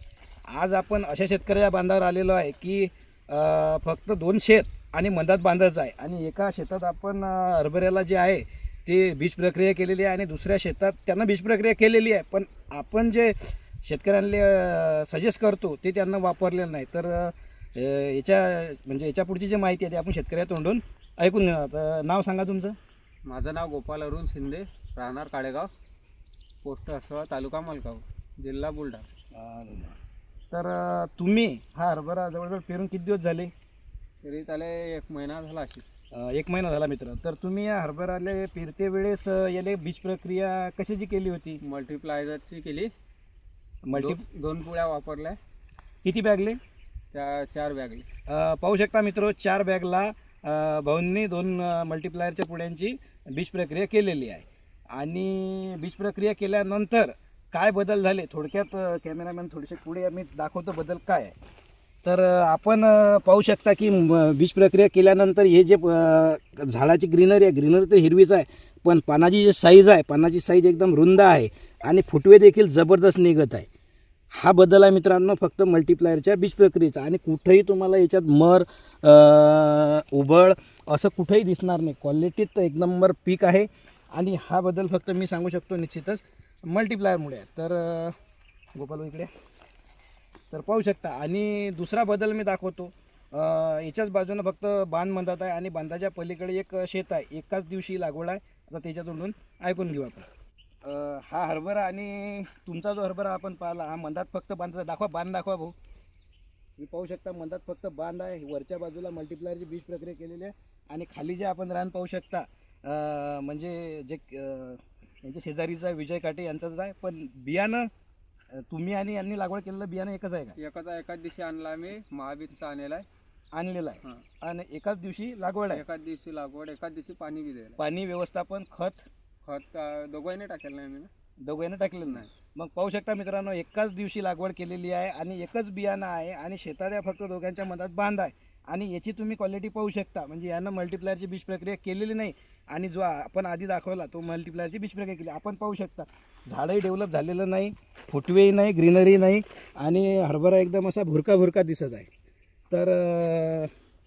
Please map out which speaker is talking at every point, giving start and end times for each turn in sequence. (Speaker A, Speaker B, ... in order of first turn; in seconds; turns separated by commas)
Speaker A: 0.5-22.8, Speaker B: 23.2-25.7, Speaker B: 26.6-29.1, Speaker A: 29.3-29.9, Speaker A: 30.5-33.5, Speaker B: 34.2-35.8, Speaker A: 36.1-41.6, Speaker B: 41.6-42.9, Speaker A: 43.9-44.2, Speaker B: 43.9-45.4, Speaker A: 46.0-46.6, Speaker B: 47.1-48.0, Speaker A: 48.3-61.3, Speaker A: 62.0-73.7, Speaker A: 74.3-88.2, Speaker A: 88.8-89.3, Speaker A: 90.5-100.3, Speaker A: 100.8-105.7, Speaker A: 106.8-117.9, Speaker A: 118.5-120.6, Speaker B: 120.6-123.0, Speaker A: 123.5-125.8, Speaker B: 125.7-127.8, Speaker A: 127.8-129.0, Speaker B: 129.4-131.1, Speaker A: 131.4-152.1, Speaker A: 152.7-153.7